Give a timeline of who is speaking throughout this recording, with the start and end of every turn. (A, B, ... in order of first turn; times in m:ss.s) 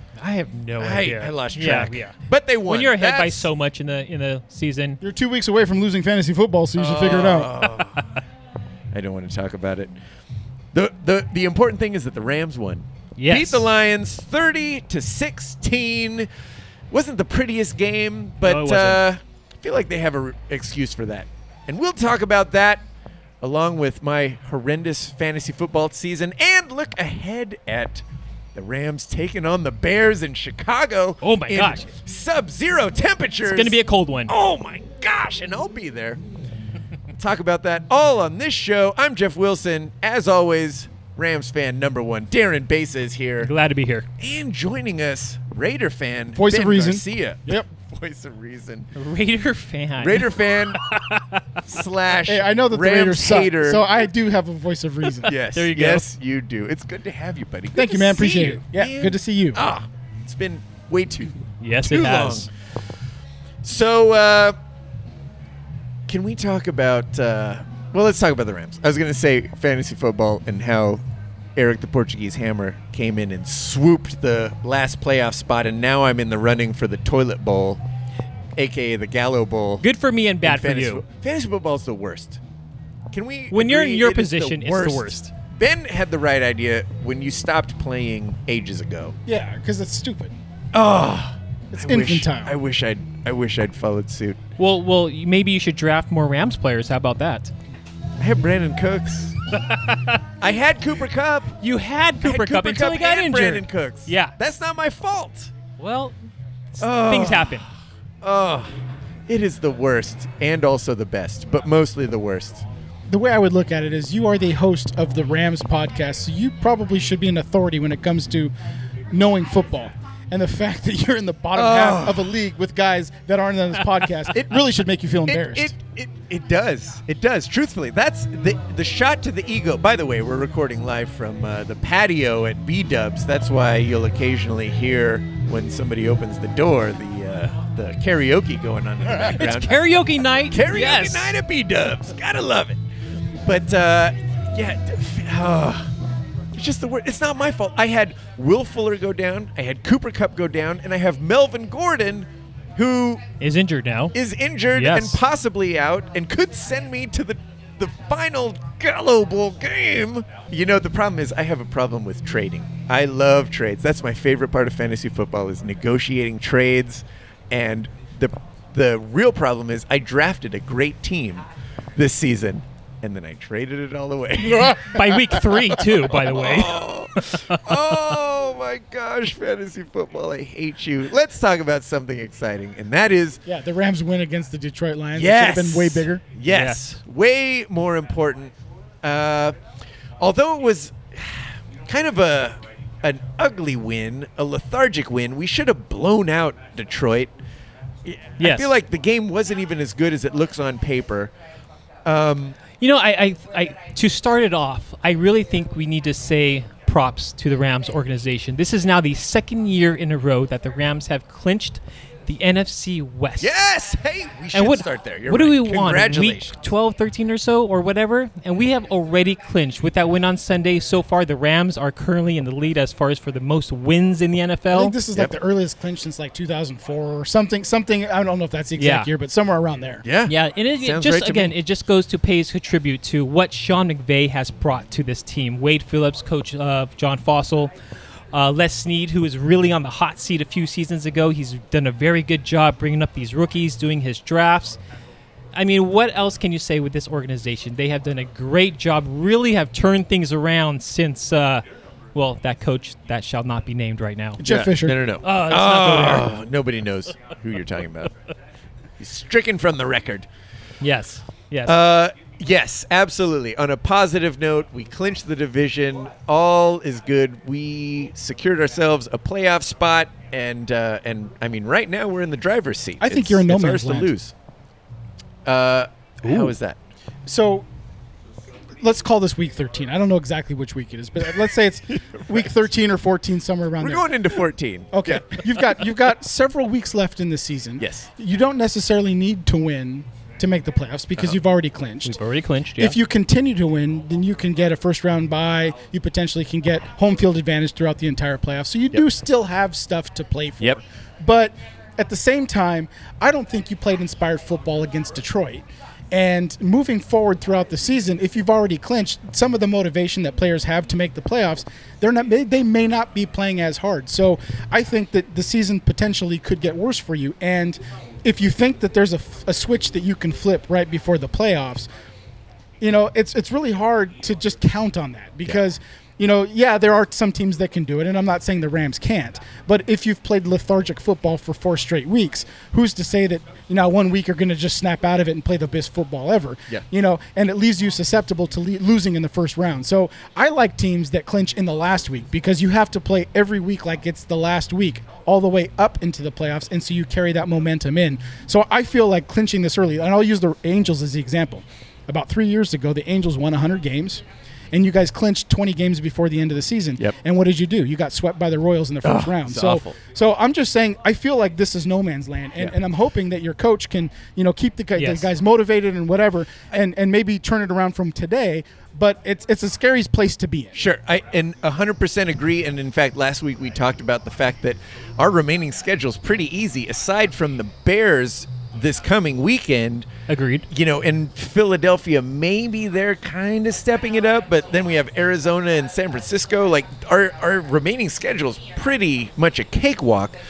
0:00.2-0:05.0 A
0:00.8-0:03.5 B
0:05.0-0:07.5 C
0:06.8-0:08.2 B
0:08.9-0:09.9 B
0:10.7-0:16.3 B
0:13.2-0:13.7 A
0:16.9-0:22.8 B
0:18.4-0:19.0 A
0:23.4-0:28.0 B
0:28.5-0:33.8 B
0:31.2-0:31.9 A
0:33.4-0:34.3 A
0:34.3-0:36.2 B
0:37.1-0:43.5 B
0:43.4-0:44.1 A
0:44.2-0:48.9 B
0:46.4-0:47.6 C
0:48.9-0:50.3 A
0:50.0-0:50.9 B
0:50.8-0:51.6 A
0:51.6-0:53.8 B
0:52.2-0:55.3 C
0:55.2-1:02.5 B
0:55.2-0:56.0 A
0:57.7-0:59.6 C
1:01.6-1:02.5 A
1:03.6-1:04.6 B
1:06.1-1:11.0 B
1:11.6-1:17.8 B
1:18.6-1:19.8 B
1:19.8-1:21.0 A
1:20.4-1:22.4 B
1:23.1-1:29.1 B
1:23.5-1:25.3 A
1:29.2-1:30.3 C
1:30.7-1:34.4 B
1:31.7-1:32.6 C
1:34.6-1:37.5 A
1:38.2-1:39.4 B
1:39.6-1:40.2 A
1:40.4-1:41.6 B
1:41.6-1:44.3 A
1:42.2-1:45.5 B
1:45.8-1:46.1 A
1:46.7-1:47.6 A
1:46.8-1:47.7 B
1:48.2-1:48.7 B
1:49.3-1:52.6 B
1:53.1-1:58.5 C
1:59.1-2:05.7 C
2:01.5-2:02.4 B
2:05.2-2:19.8 B
2:19.3-2:21.4 A
2:20.5-2:22.8 B
2:23.4-2:25.9 B
2:26.5-2:33.2 B
2:33.4-2:34.1 A
2:34.1-3:03.4 B
2:34.7-2:35.2 A
2:54.8-2:57.6 A
3:03.4-3:06.2 C
3:05.1-3:09.6 B
3:06.5-3:06.8 A
3:10.2-3:17.3 B
3:18.0-3:21.3 B
3:18.4-3:18.7 A
3:22.0-3:22.6 B
3:22.8-3:33.6 A
3:33.4-3:36.5 B
3:34.5-3:45.0 A
3:44.7-3:50.0 C
3:48.8-3:49.1 A
3:50.0-3:51.5 B
3:50.2-3:57.7 A
3:58.3-4:04.8 A
4:05.5-4:14.4 A
4:14.4-4:15.0 C
4:14.4-4:18.1 B
4:15.2-4:16.3 A
4:19.0-4:20.3 B
4:20.8-4:21.8 A
4:21.6-4:34.3 B
4:33.0-4:34.1 C
4:35.4-4:36.8 B
4:37.2-4:37.6 C
4:38.8-4:44.1 C
4:43.8-4:45.6 B
4:44.9-4:52.2 C
4:47.8-4:48.1 B
4:52.0-4:53.0 A
4:52.8-5:21.9 C
5:22.8-6:10.8 C
5:59.0-6:00.0 B
6:05.0-6:05.3 A
6:10.7-6:20.1 B
6:20.3-6:20.6 A
6:20.7-6:30.4 B